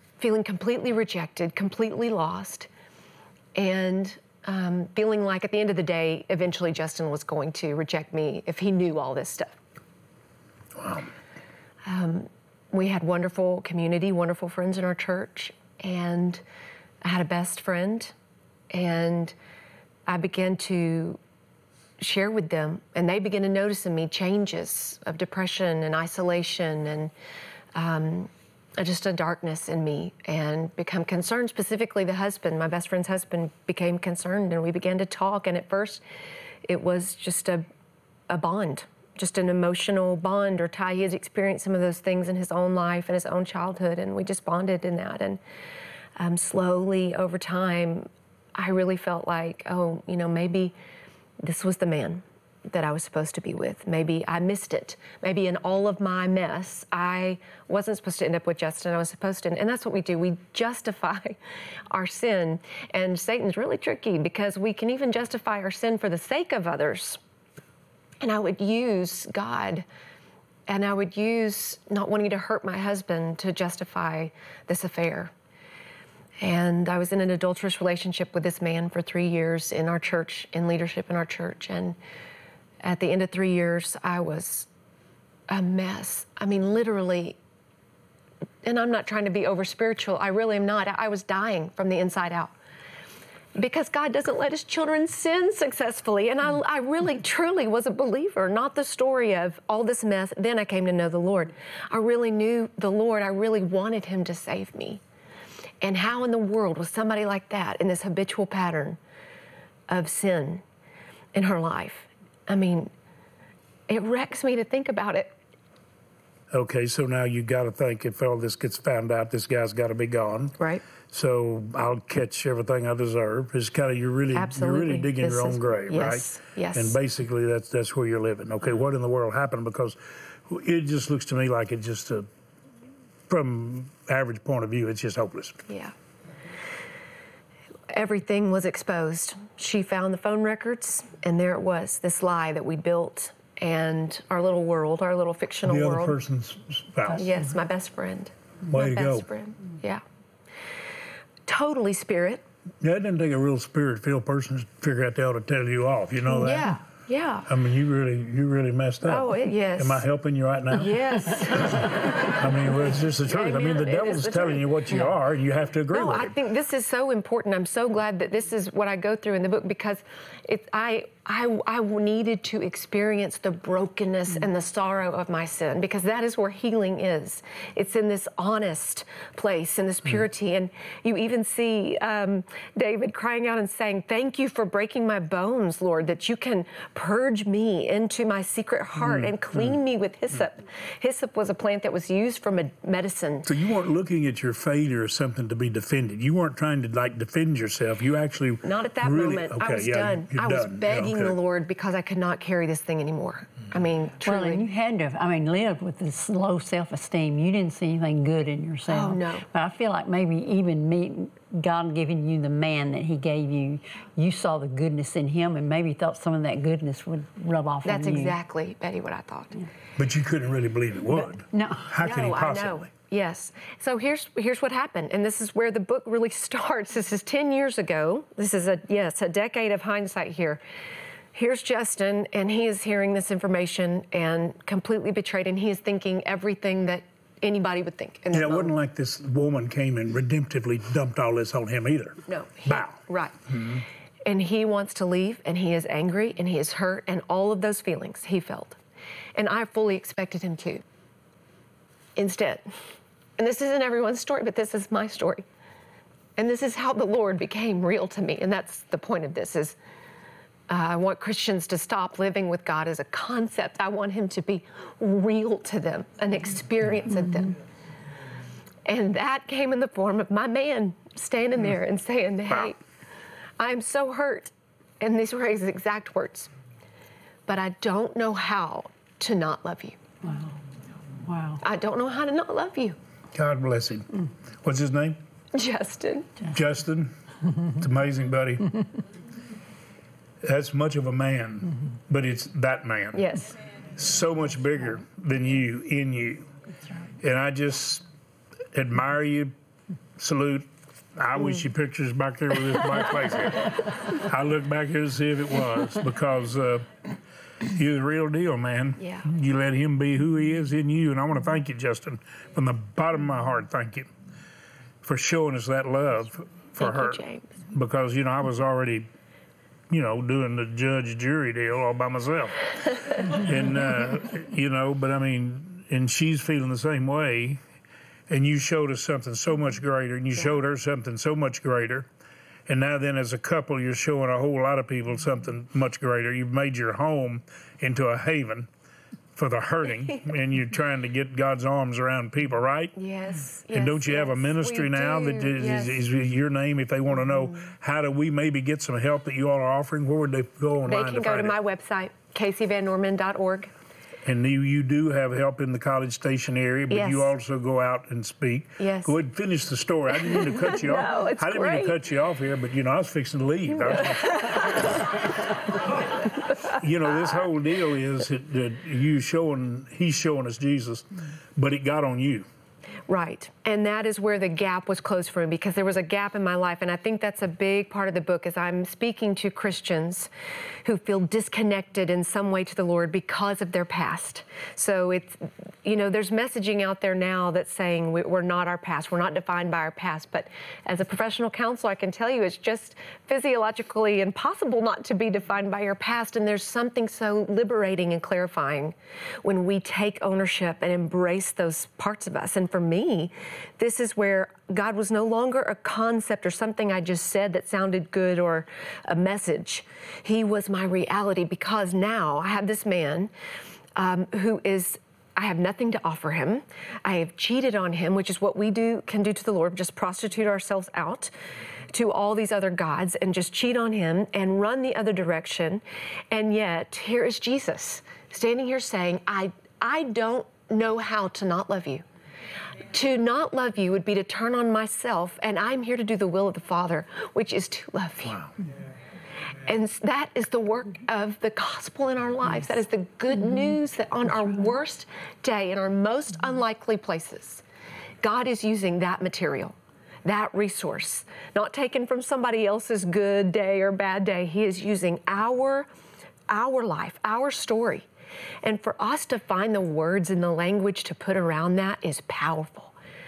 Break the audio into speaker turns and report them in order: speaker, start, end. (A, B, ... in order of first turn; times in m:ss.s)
0:00.2-0:02.7 A
0:03.5-0:09.6 A
0:10.8-0:11.1 B
0:11.8-0:16.4 A
0:17.0-0:18.1 A
0:18.7-0:19.3 A
0:20.1-0:21.2 A
0:22.0-0:27.1 A
0:27.7-0:36.0 A
0:36.6-0:37.6 A
0:38.3-0:45.4 A
0:46.2-0:50.7 A
0:51.4-1:01.4 A
1:01.9-1:07.2 A
1:08.2-1:09.8 A
1:10.7-1:15.3 A
1:16.4-1:22.0 A
1:22.8-1:24.7 A
1:25.5-1:27.4 A
1:28.6-1:32.5 A
1:33.5-1:45.0 A
1:45.8-1:49.0 A
1:49.9-1:50.6 A
1:51.3-1:52.9 A
1:53.9-1:55.3 A
1:56.5-2:00.6 B
2:00.6-2:00.8 A
2:01.1-2:12.3 B
2:04.3-2:07.0 A
2:13.3-2:15.6 B
2:15.7-2:15.9 A
2:17.9-2:26.2 A
2:25.6-2:27.3 B
2:27.2-2:30.0 A
2:28.6-2:29.3 B
2:31.4-2:32.4 A
2:32.8-2:36.7 B
2:36.3-2:37.5 A
2:37.5-2:46.4 B
2:39.0-2:40.0 A
2:40.7-2:42.4 A
2:43.2-2:45.1 A
2:45.9-3:13.5 A
3:09.0-3:09.8 B
3:13.4-3:21.4 B
3:18.6-3:24.6 A
3:24.2-3:38.4 C
3:28.9-3:29.4 A
3:37.8-3:39.6 A
3:40.0-3:42.9 B
3:41.5-3:41.9 C
3:42.0-3:50.6 A
3:51.3-3:58.8 A
3:58.3-4:03.8 B
4:02.3-4:03.4 A
4:04.2-4:08.8 A
4:09.3-4:10.8 A
4:12.2-4:12.7 A
4:13.4-4:15.4 A
4:16.4-4:19.8 A
4:20.7-4:27.6 A
4:28.8-4:32.8 A
4:33.6-4:36.5 A
4:37.5-4:40.0 A
4:40.2-4:40.6 C
4:41.2-4:41.6 C
4:41.6-4:43.0 A
4:43.3-4:45.2 B
4:45.5-4:46.3 A
4:46.5-4:47.1 B
4:47.7-4:48.7 B
4:50.4-4:53.3 B
4:53.1-4:53.5 A
4:53.9-4:56.5 B
4:57.2-4:58.0 B
4:58.7-4:59.5 B
5:00.2-5:06.9 B
5:07.6-5:14.1 B
5:09.0-5:09.3 A
5:15.0-5:19.1 B
5:16.8-5:17.5 A
5:19.9-5:22.6 B
5:23.2-5:27.6 B
5:28.3-5:32.1 B
5:32.7-5:38.7 B
5:39.4-5:43.0 B
5:43.0-5:46.0 A
5:43.7-5:51.6 B
5:50.9-5:53.7 A
5:54.2-6:04.7 B
5:56.9-5:57.3 A
5:58.8-5:59.1 A
6:00.4-6:02.0 A
6:04.0-6:04.8 A
6:06.7-6:12.5 B
6:13.1-6:20.3 A
6:20.8-6:53.3 A
6:54.0-7:01.3 A
7:01.9-7:12.0 A
7:12.8-7:18.5 A
7:19.6-7:27.6 A
7:28.2-7:35.9 A
7:36.5-7:38.1 A
7:38.6-7:42.9 A